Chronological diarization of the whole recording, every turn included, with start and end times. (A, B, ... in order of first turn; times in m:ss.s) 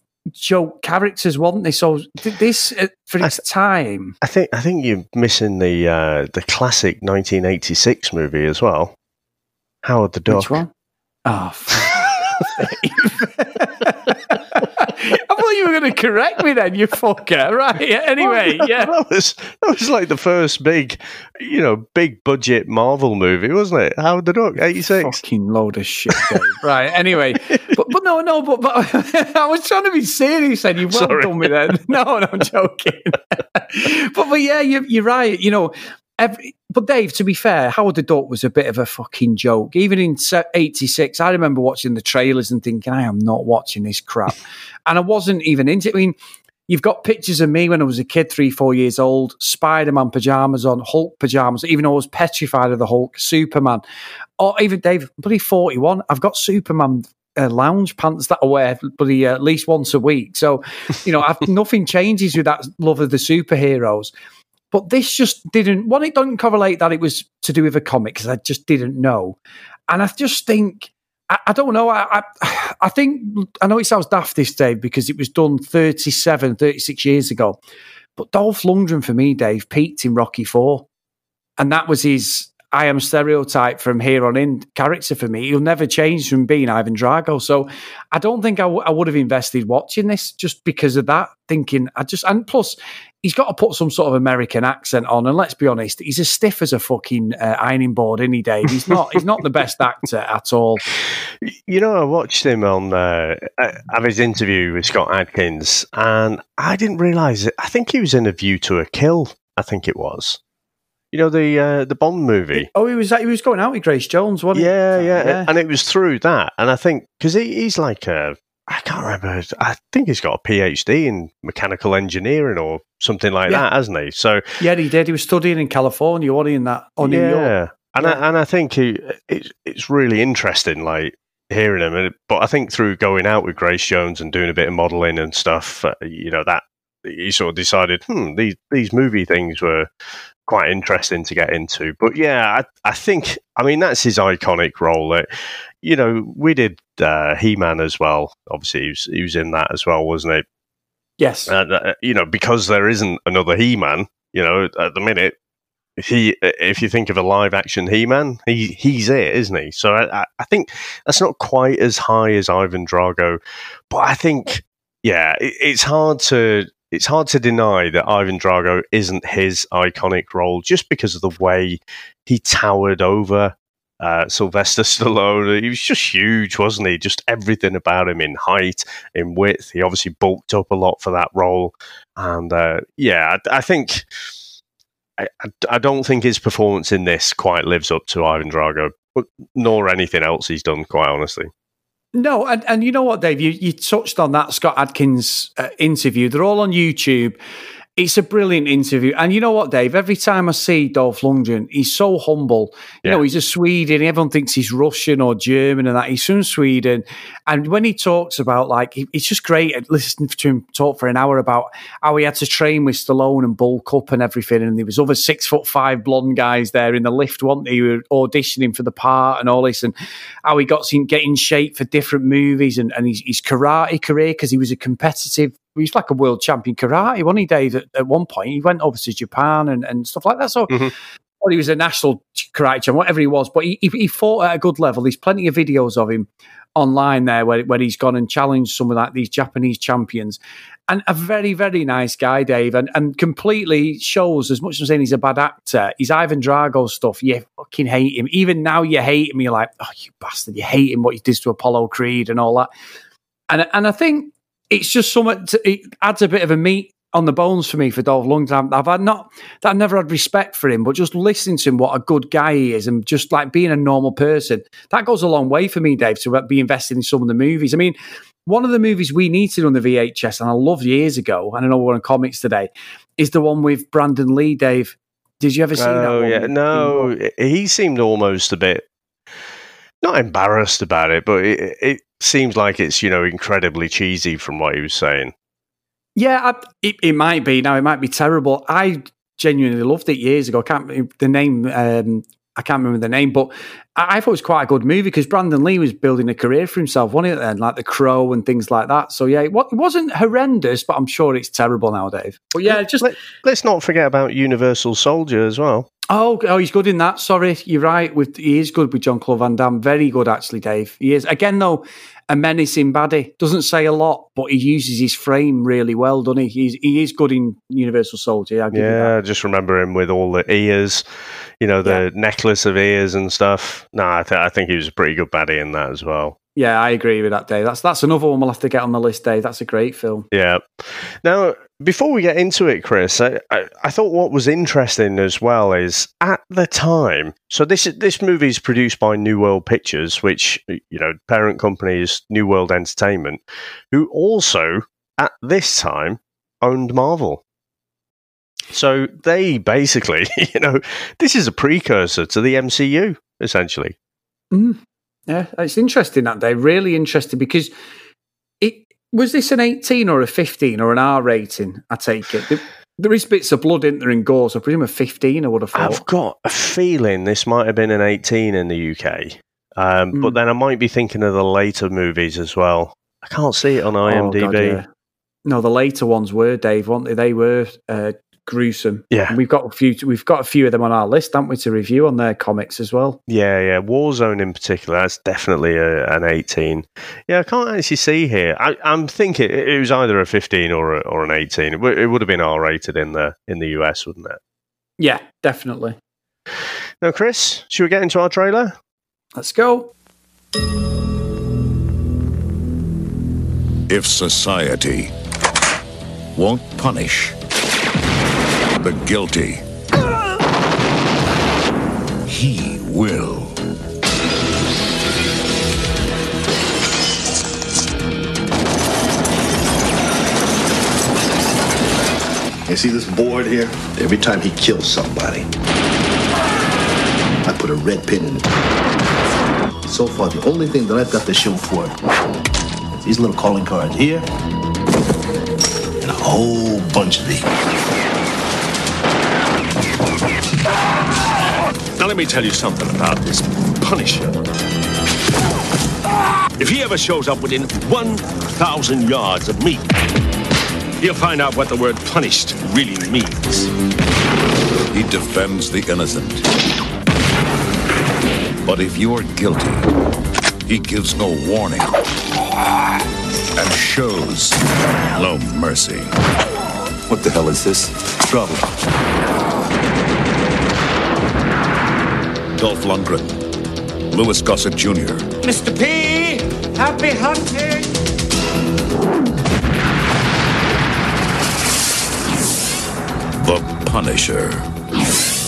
0:00.4-0:04.1 A
0:04.2-0:08.9 B
0:09.8-0:10.6 B
0:10.3-0:10.7 A
0:11.2-0:18.9 A
0:18.2-0:25.2 B
0:25.0-0:46.1 A
0:30.9-0:31.5 B
0:46.7-0:53.8 A
0:54.4-1:04.1 A
1:04.7-1:09.4 A
1:09.9-1:17.6 A
1:18.2-1:20.8 A
1:21.6-1:40.8 A
1:41.4-1:50.4 B
1:51.1-1:52.7 B
1:52.5-1:55.5 A
1:54.5-2:04.4 B
2:04.6-2:08.2 A
2:07.0-2:19.9 B
2:20.5-2:25.2 B
2:25.8-2:30.4 B
2:31.2-2:31.5 A
2:31.5-2:35.3 B
2:36.0-2:43.4 B
2:43.9-3:04.0 B
3:05.2-3:11.5 B
3:12.1-3:17.4 A
3:18.0-3:39.9 A
3:40.4-3:50.9 A
3:51.4-4:12.7 A
4:13.5-4:37.1 A
4:35.8-4:38.8 B
4:40.0-4:45.3 B
4:46.2-5:03.1 A
5:02.6-5:05.9 B
5:06.1-5:19.1 A
5:18.7-5:21.0 B
5:21.6-5:26.4 B
5:26.6-5:30.3 A
5:30.3-5:47.4 B
5:48.7-5:53.9 B
5:54.5-5:57.7 A
5:58.6-6:06.0 A
6:05.7-6:14.8 B
6:10.1-6:10.4 A
6:14.0-6:14.9 A
6:15.4-6:23.2 A
6:19.1-6:19.4 B
6:23.3-6:34.4 B
6:35.0-6:36.0 A
6:37.0-6:38.8 B
6:39.4-6:39.9 A
6:43.9-6:45.1 C
6:46.3-6:47.3 C
6:48.8-6:49.6 C
6:52.3-6:53.6 C
7:02.6-7:05.5 D
7:07.4-7:08.4 D
7:09.8-7:12.0 D
7:13.0-7:14.2 D
7:16.0-7:17.5 D
7:22.0-7:24.4 E
7:26.6-7:29.9 E
7:31.0-7:33.7 E
7:34.9-7:36.4 C
7:38.6-7:39.8 C
7:40.6-7:41.9 C
7:43.6-7:46.1 C
7:52.6-7:53.4 C
7:54.1-7:55.3 C
8:03.4-8:04.7 C